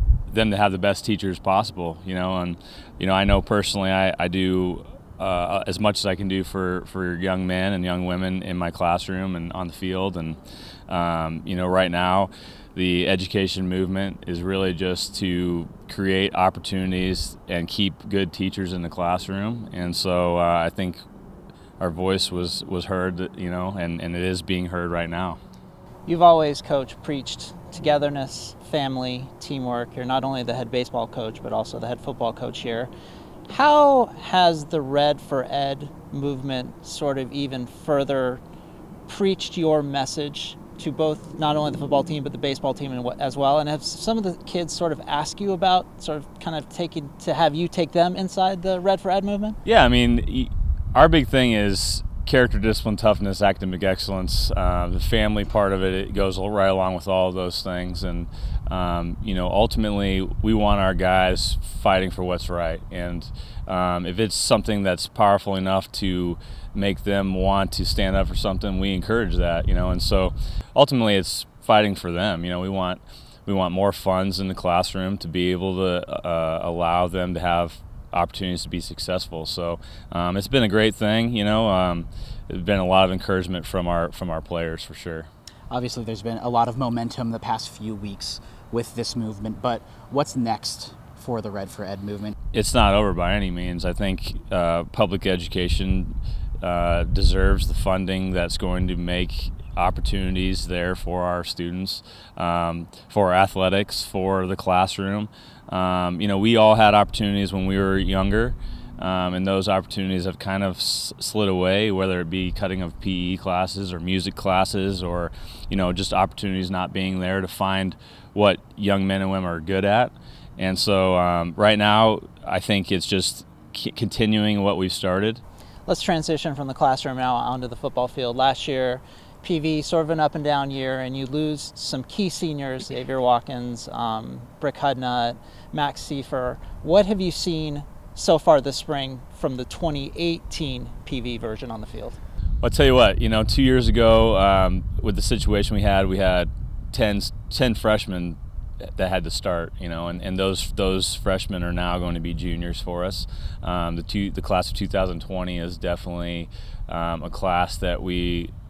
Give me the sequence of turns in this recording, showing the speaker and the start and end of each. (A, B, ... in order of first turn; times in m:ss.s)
0:00.3-0:21.0 A
0:21.8-0:25.4 A
0:26.1-0:32.9 B
0:33.5-0:38.4 B
0:39.1-0:49.6 B
0:49.6-1:25.3 A
1:25.7-1:32.3 C
1:32.5-2:05.4 A
2:05.9-2:22.2 B
2:22.6-2:28.4 A
2:29.0-2:38.5 A